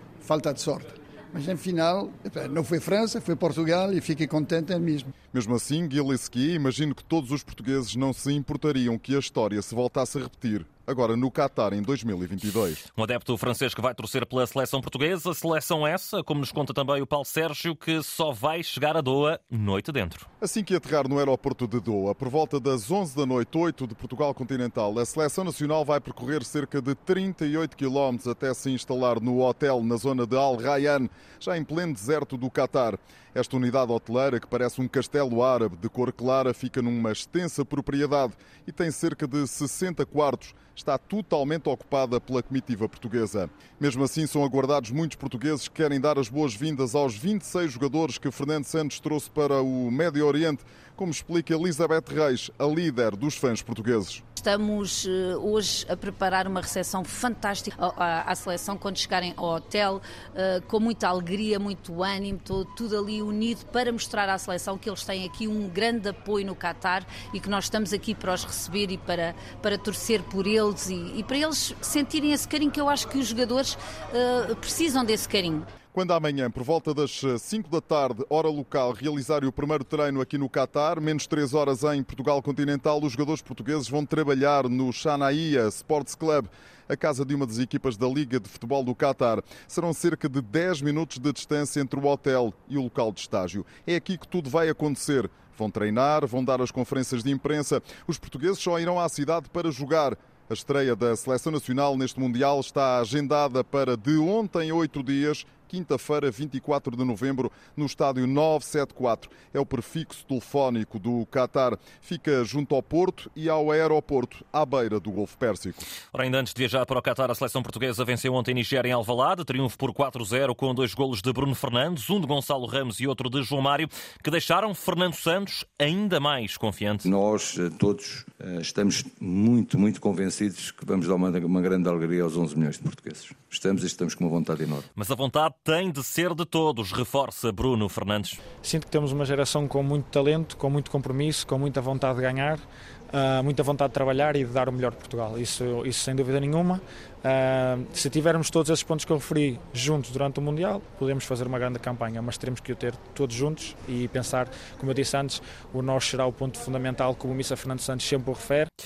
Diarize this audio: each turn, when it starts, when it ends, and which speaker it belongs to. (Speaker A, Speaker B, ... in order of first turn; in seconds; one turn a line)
Speaker A: 0.2-5.1
Speaker B: 5.3-12.8
Speaker C: 12.9-20.3
Speaker B: 20.4-54.2
Speaker D: 54.4-75.7
Speaker B: 75.9-115.8
Speaker C: 116.1-127.1
Speaker E: 127.0-134.8
Speaker C: 134.9-138.4
Speaker F: 138.6-158.7